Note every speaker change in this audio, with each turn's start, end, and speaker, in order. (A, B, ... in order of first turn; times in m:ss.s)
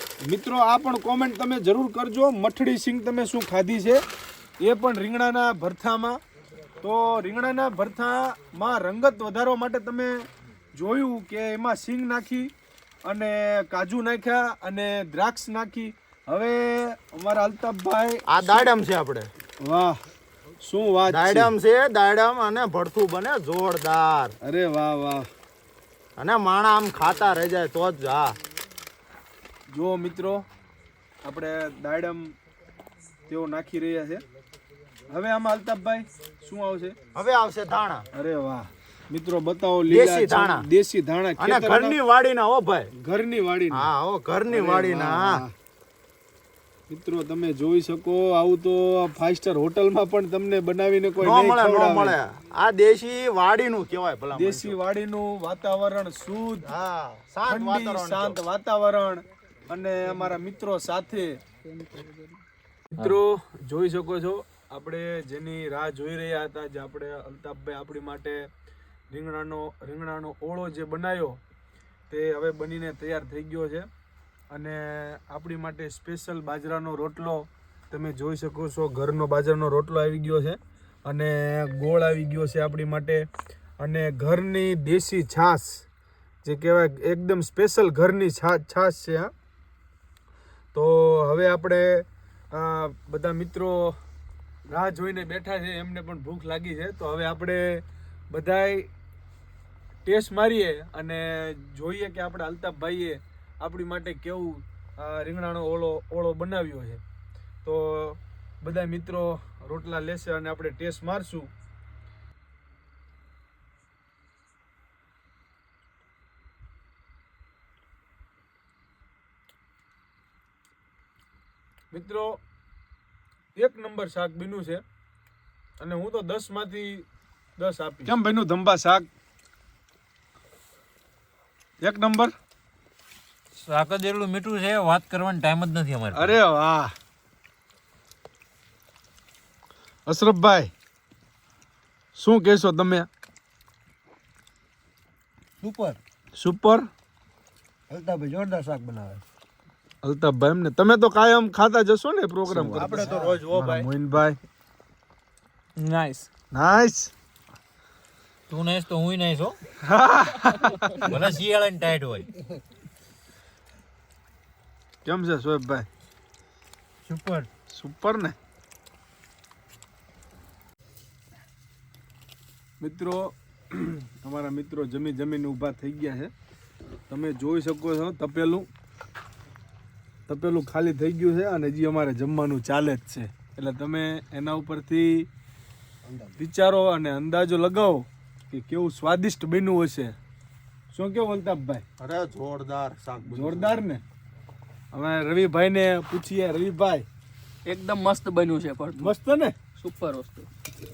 0:00.2-0:04.0 A
0:04.6-0:06.2 A
0:06.8-0:12.5 A
0:13.0-0:18.7 A
0:18.3-0:19.3 B
0:19.6-0:20.0 A
0:20.6-0:21.5 A
0:21.1-0:24.4 B
0:24.4-0:25.3 A
0:26.2-0:28.4 B
0:29.7-0:30.4 A
0:31.2-0:32.3 A
0:33.3-0:34.2 A
0:35.1-0:37.0 A
0:37.1-0:38.1 B
0:38.1-0:42.0 A
0:39.9-0:40.6 B
0:41.4-0:42.9 B
0:42.9-0:43.9 A
0:43.7-0:45.4 B
0:44.5-0:45.5 A
0:46.9-0:52.2 A
0:51.2-0:54.8 B
0:54.3-0:56.7 A
0:56.7-0:58.4 B
0:57.5-1:01.4 A
1:01.6-1:02.4 C
1:02.9-1:08.5 A
1:09.1-1:11.4 A
1:12.1-1:13.9 A
1:14.5-1:23.3 A
1:23.8-1:25.8 A
1:26.4-1:29.3 A
1:30.7-1:34.0 A
1:34.7-1:38.9 A
1:40.0-1:47.0 A
1:47.6-1:51.5 A
2:01.9-2:02.4 A
2:03.6-2:04.8 A
2:05.8-2:07.0 A
2:07.6-2:09.1 A
2:11.8-2:12.3 A
2:13.6-2:16.4 D
2:16.1-2:16.9 A
2:20.1-2:20.7 A
2:22.1-2:23.1 A
2:25.6-2:26.0 E
2:26.4-2:26.9 A
2:27.9-2:29.2 E
2:30.0-2:34.4 A
2:32.5-2:33.9 B
2:33.0-2:33.3 E
2:36.4-2:37.1 A
2:38.5-2:39.6 D
2:39.8-2:41.1 A
2:40.9-2:42.3 D
2:45.0-2:45.9 A
2:47.1-2:47.5 B
2:47.7-2:48.4 A
2:52.8-2:56.3 A
2:57.1-2:58.7 A
3:00.3-3:05.3 A
3:06.4-3:10.1 A
3:10.9-3:11.8 A
3:12.0-3:13.8 B
3:13.3-3:14.0 A
3:14.9-3:17.0 A
3:17.6-3:19.1 C
3:19.0-3:19.6 A
3:19.8-3:20.5 C